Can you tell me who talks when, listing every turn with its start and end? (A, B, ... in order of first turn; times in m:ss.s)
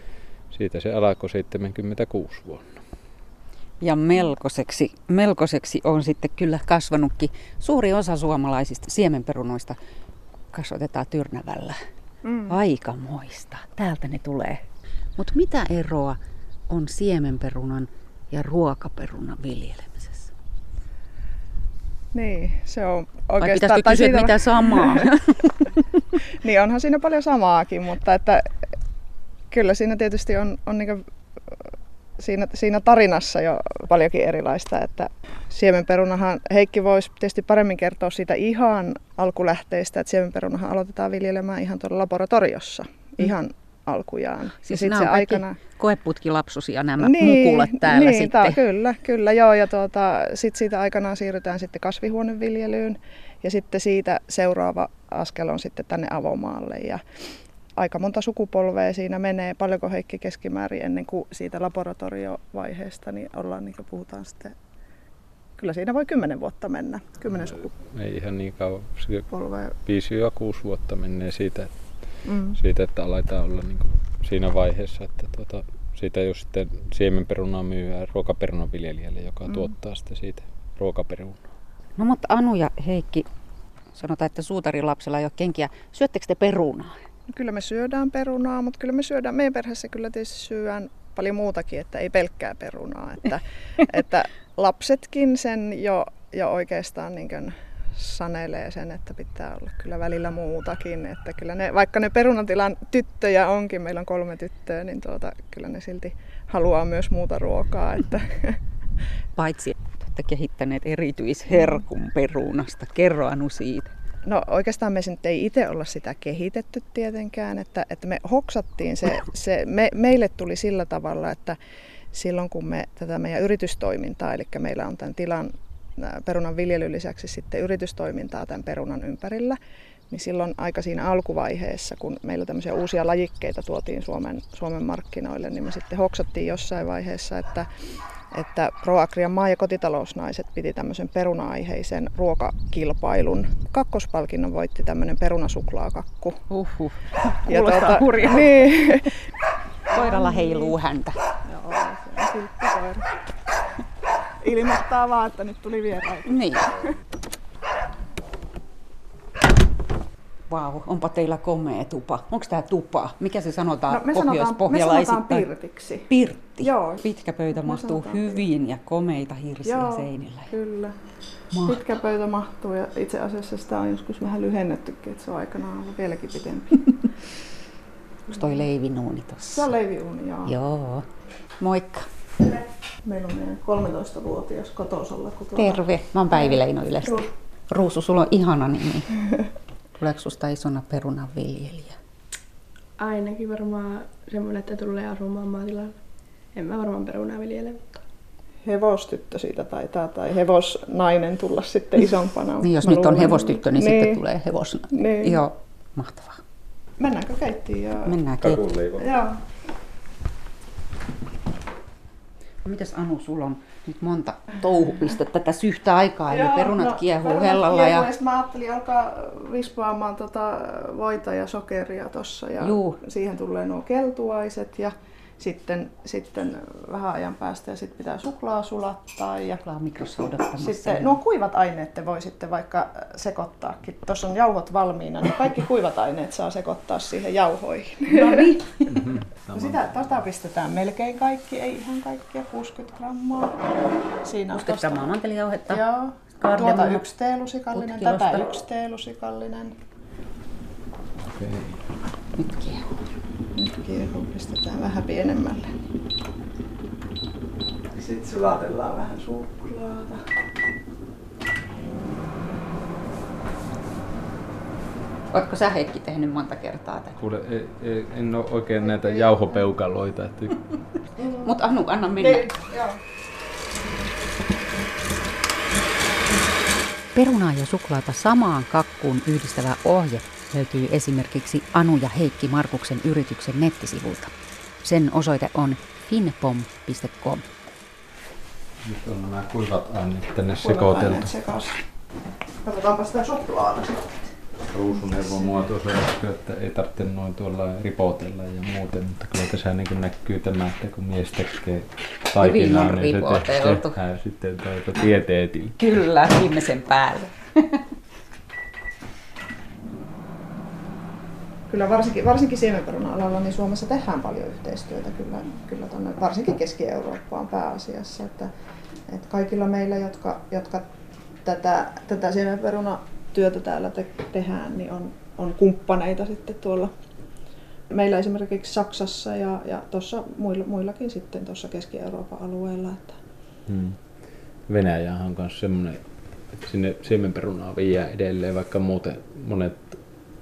0:00.5-0:02.8 A
0:03.8-0:09.8 B
0:10.5-0:11.8 B
0:12.2-0:12.6 C
0:12.5-0:14.6 B
0:15.2-0:16.2 B
0:16.7-0:20.3 B
0:22.1-0:25.1 C
0:23.4-0:25.8 B
0:26.4-0:28.5 C
0:29.5-0:31.0 C
0:32.2-0:45.6 C
0:44.6-0:48.6 B
0:47.0-0:57.0 C
0:57.8-1:04.6 C
1:05.6-1:07.7 C
1:07.3-1:09.3 A
1:09.3-1:09.8 C
1:09.8-1:21.4 A
1:12.3-1:12.6 C
1:22.0-1:23.3 B
1:23.9-1:27.0 B
1:27.3-1:48.6 C
1:49.4-1:53.9 B
1:54.3-2:01.6 C
2:02.1-2:09.6 C
2:10.1-2:17.7 C
2:18.3-2:26.4 C
2:26.5-2:28.7 B
2:27.4-2:29.2 C
2:29.9-2:30.8 C
2:29.9-2:31.2 B
2:31.5-2:33.1 C
2:34.4-2:36.9 C
2:36.3-2:36.7 B
2:40.5-2:45.5 B
2:43.9-2:48.4 C
2:46.1-2:50.5 B
2:49.6-2:51.0 C
2:51.5-2:51.8 B
2:51.6-2:56.8 C
2:58.3-2:59.7 B
2:59.5-3:00.5 C
3:00.4-3:01.1 B
3:01.6-3:02.1 B
3:03.0-3:07.3 C
3:05.6-3:09.2 B
3:10.0-3:12.0 B
3:13.0-3:16.0 D
3:16.6-3:18.0 D
3:18.6-3:24.2 C
3:22.6-3:26.4 B
3:24.9-3:25.4 C
3:27.0-3:28.2 C
3:28.1-3:28.6 B
3:28.4-3:29.1 A
3:29.0-3:29.4 C
3:32.6-3:38.1 B
3:36.3-3:49.6 C
3:42.6-3:43.0 B
3:49.5-3:51.2 B
3:50.6-3:58.6 C
3:58.1-3:59.1 B
3:58.9-4:00.2 A
3:59.5-4:05.1 C
4:04.5-4:07.1 B
4:05.7-4:09.8 C
4:07.7-4:08.5 B
4:11.2-4:11.8 A
4:12.4-4:13.0 B
4:13.6-4:15.8 C
4:17.9-4:20.3 C
4:25.3-4:27.2 B
4:27.2-4:30.8 A
4:28.9-4:29.6 C
4:31.2-4:31.5 C
4:31.4-4:32.6 B
4:32.2-4:33.0 C
4:37.2-4:47.5 B
4:48.8-4:51.3 A
4:50.6-4:51.8 C
4:52.6-4:54.3 C
4:54.7-5:05.8 A
5:02.4-5:04.0 B
5:05.8-5:07.8 B
5:11.7-5:18.5 C
5:19.1-5:20.9 C
5:21.4-5:26.9 C
5:27.9-5:33.2 C
5:33.7-5:34.0 A
5:34.7-5:40.0 A